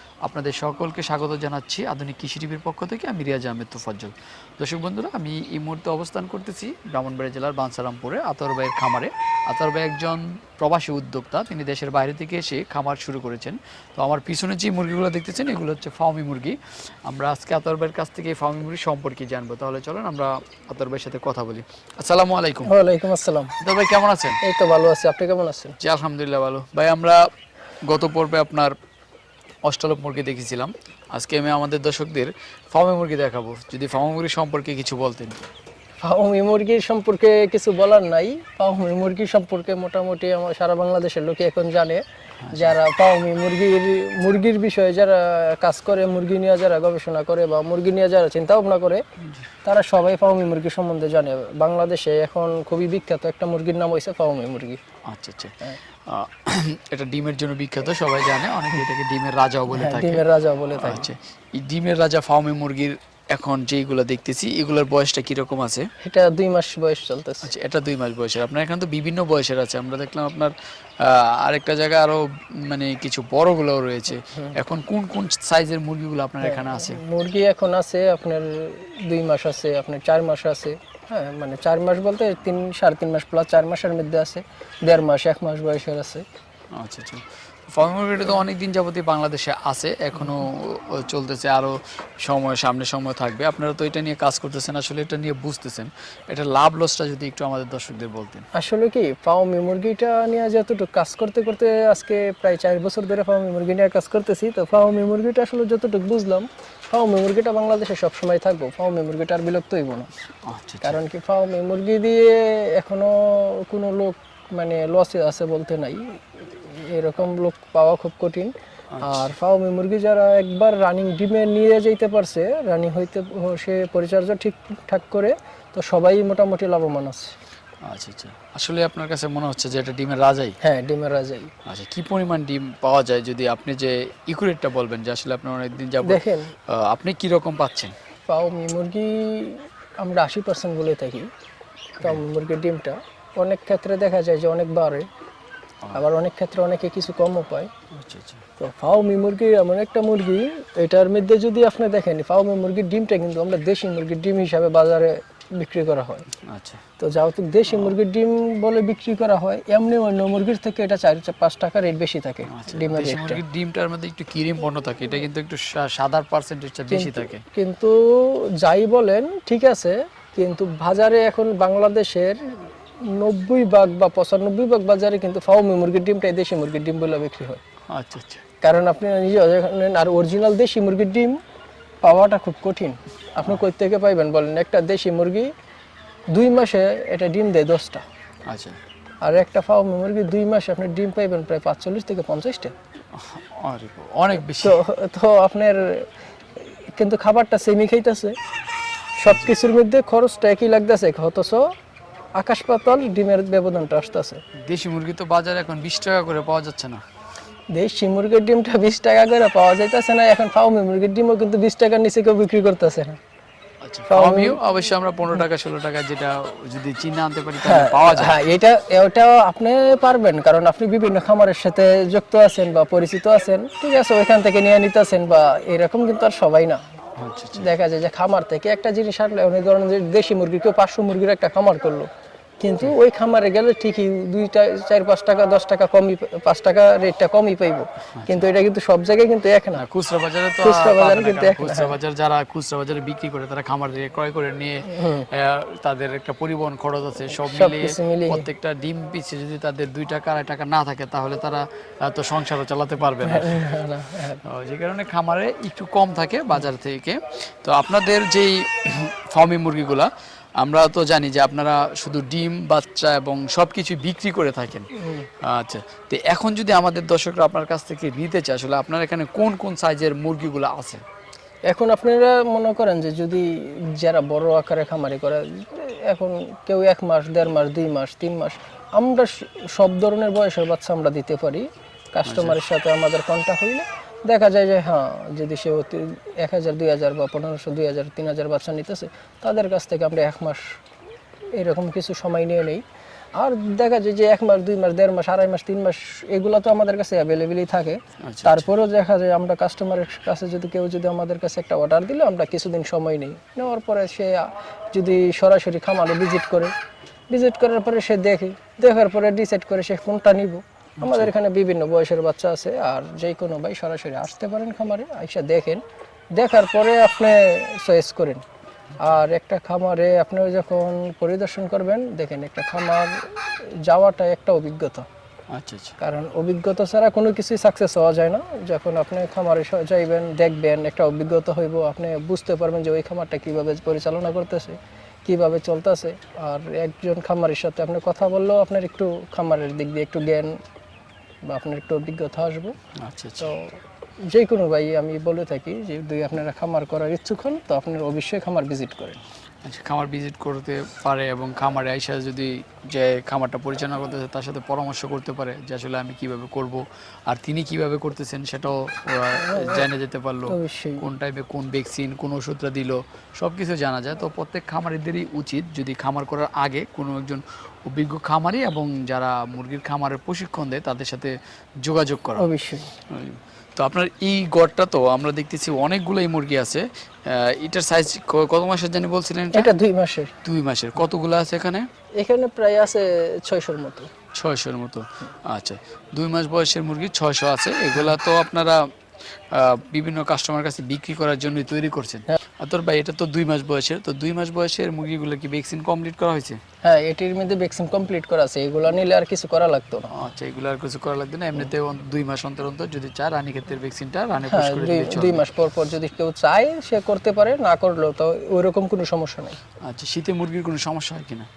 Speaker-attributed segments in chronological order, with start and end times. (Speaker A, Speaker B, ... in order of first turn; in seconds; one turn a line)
Speaker A: 0.2-22.7
Speaker B: 22.6-23.6
Speaker A: 23.6-24.4
Speaker B: 24.4-25.8
Speaker A: 25.8-27.3
Speaker A: 27.8-28.8
Speaker A: 29.6-35.5
Speaker B: 36.0-49.0
Speaker A: 42.4-42.8
Speaker B: 49.6-54.8
Speaker A: 55.1-65.9
Speaker B: 59.7-61.1
Speaker B: 66.0-67.5
Speaker A: 67.4-77.0
Speaker B: 76.4-86.2
Speaker A: 86.8-98.5
Speaker B: 98.5-110.1
Speaker A: 110.5-111.0
Speaker B: 110.8-127.3
Speaker A: 118.9-119.3
Speaker A: 127.8-130.6
Speaker B: 130.6-131.5
Speaker A: 131.7-137.9
Speaker B: 136.0-136.5
Speaker B: 138.3-141.3
Speaker B: 142.0-145.1
Speaker B: 145.9-147.7
Speaker A: 147.9-148.4
Speaker B: 148.6-156.3
Speaker A: 156.5-156.8
Speaker B: 157.0-163.4
Speaker A: 157.7-158.0
Speaker A: 162.5-167.4
Speaker B: 166.9-177.6
Speaker A: 177.9-178.4
Speaker B: 178.6-181.4
Speaker B: 182.0-185.5
Speaker B: 186.3-188.0
Speaker A: 188.5-188.8
Speaker B: 189.2-192.7
Speaker A: 193.1-194.8
Speaker B: 194.6-198.4
Speaker B: 199.2-201.7
Speaker B: 202.4-204.4
Speaker A: 204.6-207.0
Speaker B: 207.7-213.2
Speaker A: 213.8-218.4
Speaker B: 214.1-214.6
Speaker B: 217.6-226.8
Speaker A: 227.2-227.7
Speaker B: 227.5-232.1
Speaker B: 232.6-239.8
Speaker A: 238.2-238.5
Speaker A: 239.8-253.6
Speaker B: 240.6-242.0
Speaker B: 244.9-245.3
Speaker B: 247.3-248.5
Speaker B: 253.2-254.4
Speaker A: 254.4-264.9
Speaker B: 264.9-265.3
Speaker A: 265.4-271.0
Speaker B: 271.7-290.8
Speaker A: 282.3-282.6
Speaker B: 291.6-292.8
Speaker B: 293.4-306.7
Speaker A: 298.2-298.7
Speaker B: 307.3-315.8
Speaker A: 311.0-311.3
Speaker B: 316.4-318.4
Speaker B: 319.0-325.1
Speaker A: 325.5-326.0
Speaker B: 326.0-340.6
Speaker B: 341.5-342.8
Speaker A: 343.0-343.5
Speaker B: 343.4-343.8
Speaker B: 344.3-349.2
Speaker A: 349.6-372.4
Speaker B: 359.4-359.9
Speaker B: 360.5-361.1
Speaker B: 372.4-372.9
Speaker A: 373.1-379.7
Speaker B: 379.5-380.3
Speaker A: 380.4-381.9
Speaker B: 382.2-384.1
Speaker A: 384.4-388.8
Speaker A: 389.5-396.6
Speaker B: 396.8-400.1
Speaker A: 400.1-405.4
Speaker B: 404.5-409.6
Speaker A: 409.8-411.5